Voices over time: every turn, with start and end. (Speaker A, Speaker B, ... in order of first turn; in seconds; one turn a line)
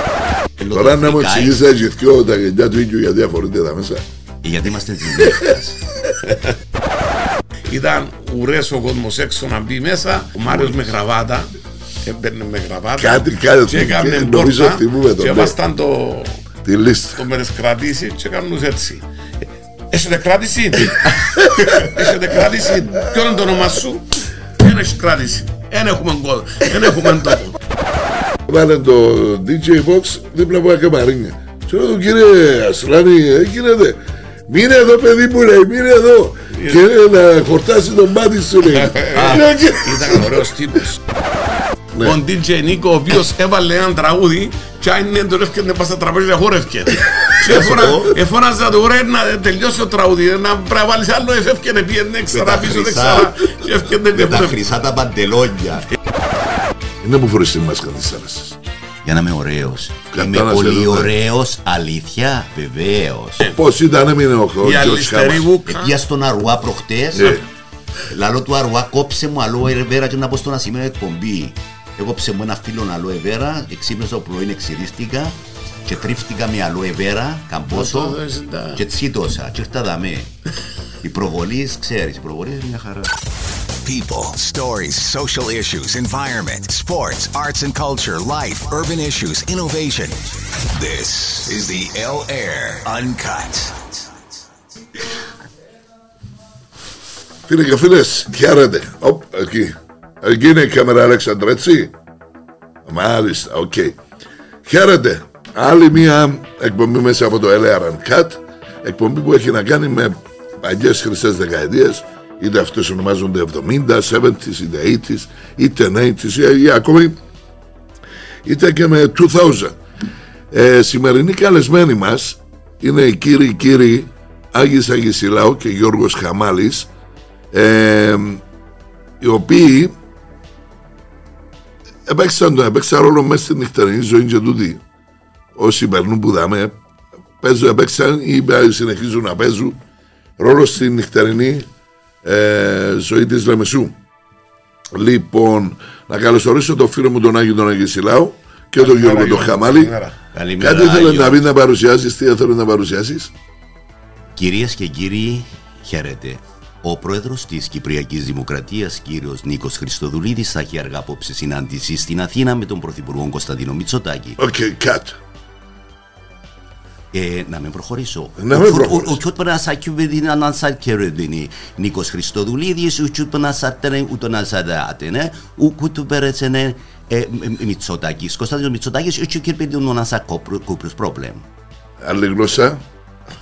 Speaker A: 0.6-1.6
Speaker B: 0.7-4.0
Speaker A: 4.4-5.8
Speaker B: 5.2-5.5
Speaker C: 7.7-11.5
Speaker C: 12.0-16.4
Speaker B: 13.0-15.6
Speaker B: 16.6-17.2
Speaker C: 17.2-19.0
Speaker C: 19.9-27.6
Speaker B: 21.0-22.2
Speaker B: 22.8-23.8
Speaker B: 28.5-40.5
Speaker C: 36.5-36.8
Speaker C: 38.6-41.0
Speaker C: 42.0-54.6
Speaker A: 47.5-48.1
Speaker A: 52.3-53.3
Speaker A: 54.1-55.9
Speaker B: 57.0-58.6
Speaker A: 59.0-63.5
Speaker B: 60.1-61.1
Speaker B: 63.4-65.5
Speaker C: 64.6-65.9
Speaker A: 65.7-67.4
Speaker B: 67.2-67.4
Speaker A: 68.1-78.2
Speaker C: 77.7-78.8
Speaker A: 78.8-80.3
Speaker A: 81.0-83.1
Speaker D: 83.8-94.1
Speaker B: 97.5-101.9
Speaker B: 102.8-104.0
Speaker B: 104.7-117.2
Speaker B: 118.5-119.8
Speaker B: 120.5-126.9
Speaker B: 127.5-128.4
Speaker B: 129.2-129.9
Speaker B: 132.1-134.8
Speaker B: 135.6-136.7
Speaker B: 137.4-139.8
Speaker B: 140.4-141.7
Speaker B: 142.2-144.0
Speaker B: 144.9-149.9
Speaker C: 148.8-150.2
Speaker A: 150.3-151.4
Speaker B: 150.6-153.3
Speaker A: 154.4-164.4
Speaker B: 164.4-165.2
Speaker A: 167.1-181.4
Speaker B: 168.4-169.2
Speaker B: 182.0-182.8